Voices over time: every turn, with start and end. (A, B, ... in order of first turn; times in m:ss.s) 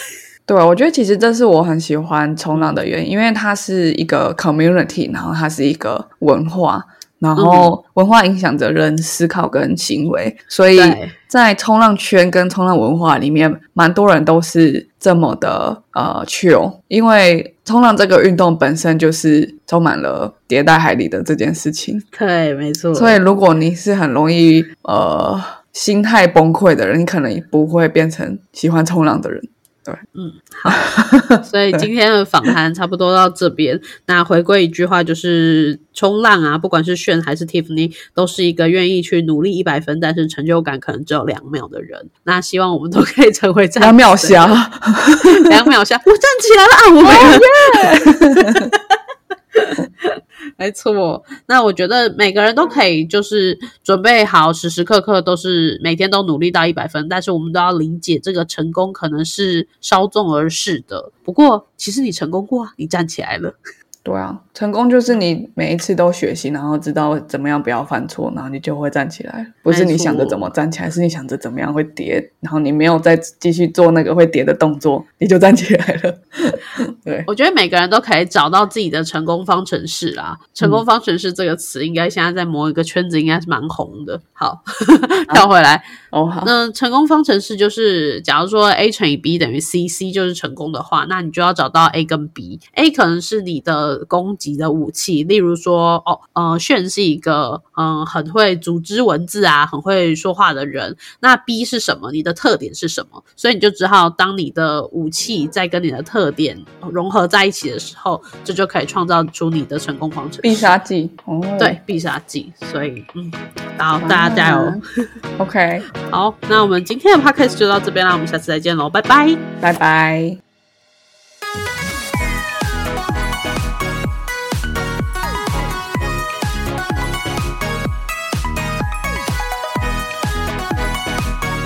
0:00.5-0:22.0 A
0:07.4-0:07.7 B
0:10.8-0:11.1 B
0:22.1-0:23.2 B
0:22.9-0:30.0 A
0:30.1-0:30.9 B
0:30.6-0:31.9 A
0:31.4-0:44.6 B
0:43.8-0:45.6 A
0:45.2-0:49.0 B
0:47.0-0:48.7 A
0:49.5-1:03.6 B
1:04.0-1:17.3 A
1:09.7-1:10.5 B
1:17.3-1:25.9 B
1:26.1-1:26.5 A
1:26.4-1:50.7 B
1:50.4-1:51.8 A
1:51.6-1:54.8 B
1:54.0-1:54.8 A
1:55.4-1:55.8 A
1:56.0-1:59.4 B
1:59.6-2:00.4 A